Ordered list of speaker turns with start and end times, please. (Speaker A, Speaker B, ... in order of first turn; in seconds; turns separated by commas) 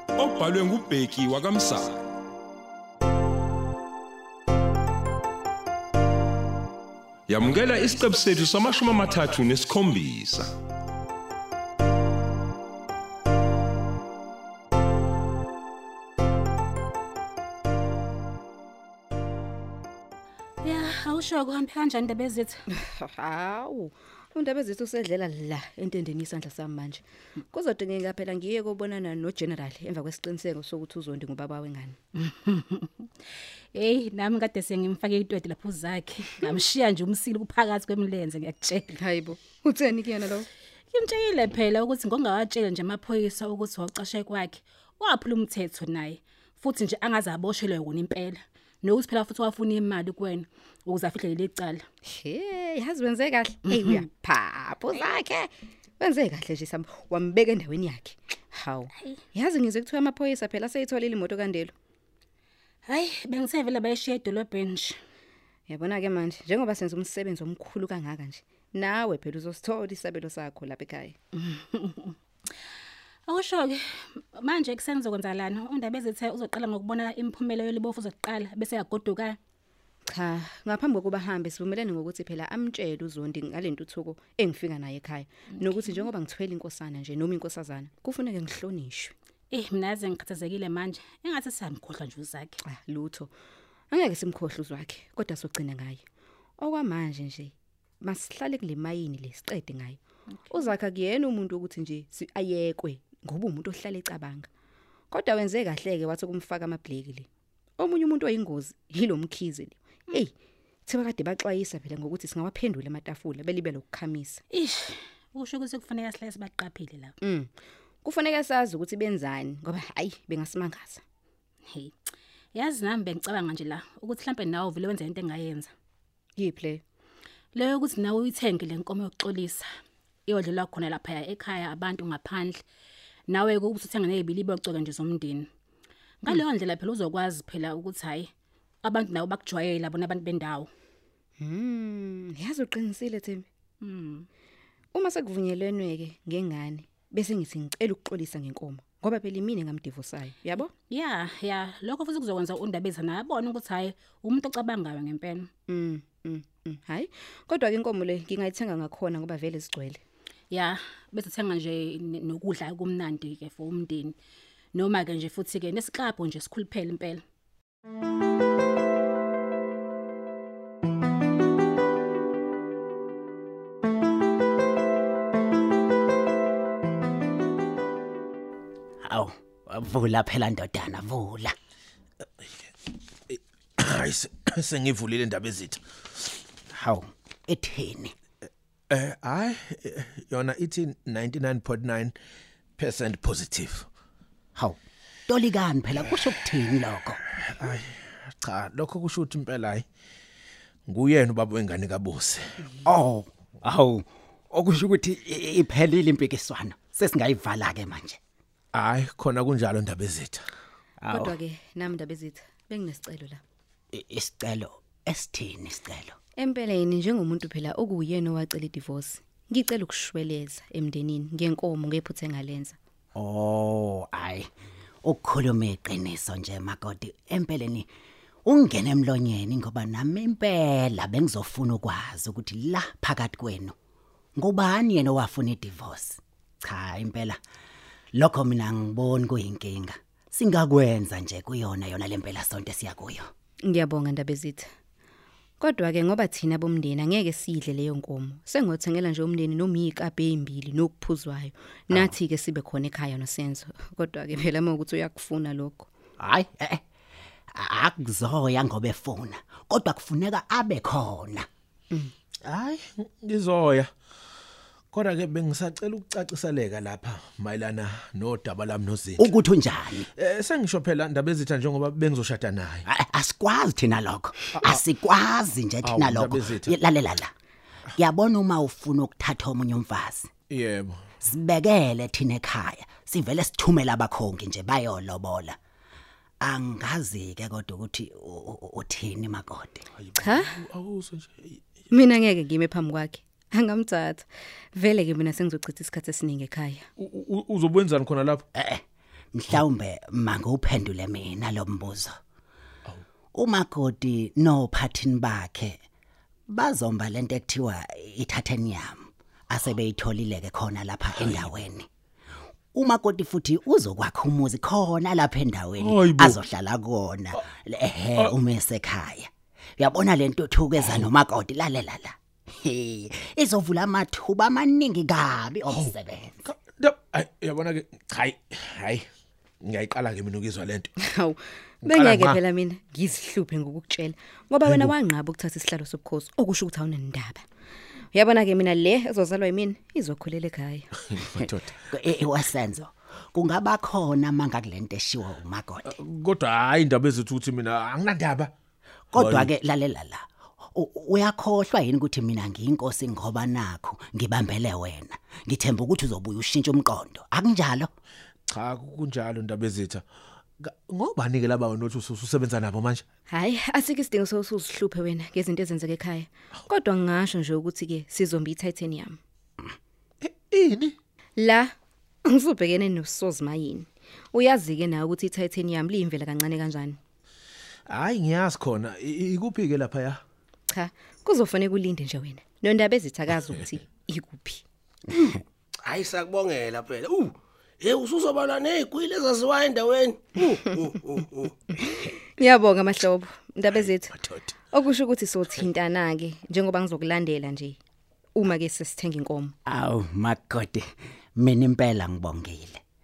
Speaker A: 0.2-2.1, Speaker A: 7.3-10.5, Speaker B: 20.6-22.6, Speaker C: 22.8-32.0, Speaker B: 32.3-32.9, Speaker B: 33.7-39.0, Speaker C: 38.9-40.5, Speaker B: 40.9-51.8, Speaker C: 52.0-61.7, Speaker B: 62.9-65.0, Speaker C: 65.7-71.2, Speaker B: 71.4-72.1, Speaker B: 73.3-79.4, Speaker C: 80.1-89.1, Speaker B: 89.5-92.6, Speaker C: 92.6-93.3, Speaker C: 93.9-96.0, Speaker C: 96.6-104.5, Speaker C: 105.1-110.3, Speaker C: 110.8-114.4, Speaker B: 114.5-117.1, Speaker C: 117.2-121.0, Speaker B: 122.5-125.7, Speaker C: 126.3-126.8, Speaker B: 127.5-129.7, Speaker B: 130.3-132.6, Speaker B: 133.3-135.5, Speaker B: 136.2-138.3, Speaker B: 138.8-140.7, Speaker C: 141.4-143.4, Speaker B: 143.8-144.3, Speaker C: 144.9-150.7, Speaker B: 150.9-155.5, Speaker C: 155.7-160.0, Speaker B: 160.5-164.2, Speaker B: 164.7-167.2, Speaker D: 179.0-181.5, Speaker E: 183.3-185.8, Speaker D: 186.7-188.1, Speaker E: 188.9-192.1, Speaker E: 192.8-193.8, Speaker D: 194.6-197.2, Speaker E: 197.4-199.8, Speaker E: 200.9-202.5, Speaker D: 202.8-208.2, Speaker E: 208.7-210.4, Speaker D: 211.0-211.3, Speaker C: 211.1-213.4, Speaker D: 213.9-216.2, Speaker C: 216.4-222.8, Speaker D: 223.1-224.5, Speaker D: 225.0-227.9, Speaker D: 228.4-233.7, Speaker D: 234.3-237.4, Speaker D: 238.1-243.3, Speaker C: 243.7-244.7, Speaker C: 245.6-255.9, Speaker D: 256.2-256.8, Speaker D: 257.5-261.5, Speaker E: 262.4-263.9, Speaker E: 264.9-269.3, Speaker D: 269.2-270.0, Speaker E: 270.1-272.8, Speaker D: 272.9-277.3, Speaker E: 274.5-274.8, Speaker E: 275.8-276.8, Speaker D: 277.9-280.3, Speaker E: 280.5-281.1, Speaker D: 281.2-285.6, Speaker D: 286.4-289.8, Speaker E: 290.0-291.6, Speaker C: 290.2-290.5, Speaker C: 291.9-296.9, Speaker E: 297.0-298.4, Speaker D: 298.5-298.8, Speaker D: 299.3-302.1, Speaker D: 303.3-305.8, Speaker D: 306.5-311.9, Speaker D: 312.7-326.3, Speaker E: 315.8-316.4, Speaker E: 325.7-329.1, Speaker E: 329.6-330.9, Speaker C: 331.0-337.4, Speaker E: 331.8-332.4, Speaker E: 334.7-334.9, Speaker C: 338.1-340.9, Speaker E: 341.1-341.7, Speaker D: 341.4-345.9, Speaker E: 345.8-348.5, Speaker E: 349.1-349.5, Speaker D: 349.1-357.9, Speaker E: 358.5-360.0, Speaker E: 360.6-363.0, Speaker C: 363.3-369.2, Speaker E: 370.2-370.9, Speaker C: 371.4-371.7, Speaker C: 372.2-377.0, Speaker E: 377.9-380.2, Speaker C: 380.7-385.4, Speaker F: 385.8-391.6, Speaker C: 391.8-394.1, Speaker C: 394.7-397.8, Speaker C: 398.3-399.5, Speaker D: 399.6-400.8, Speaker D: 401.4-402.8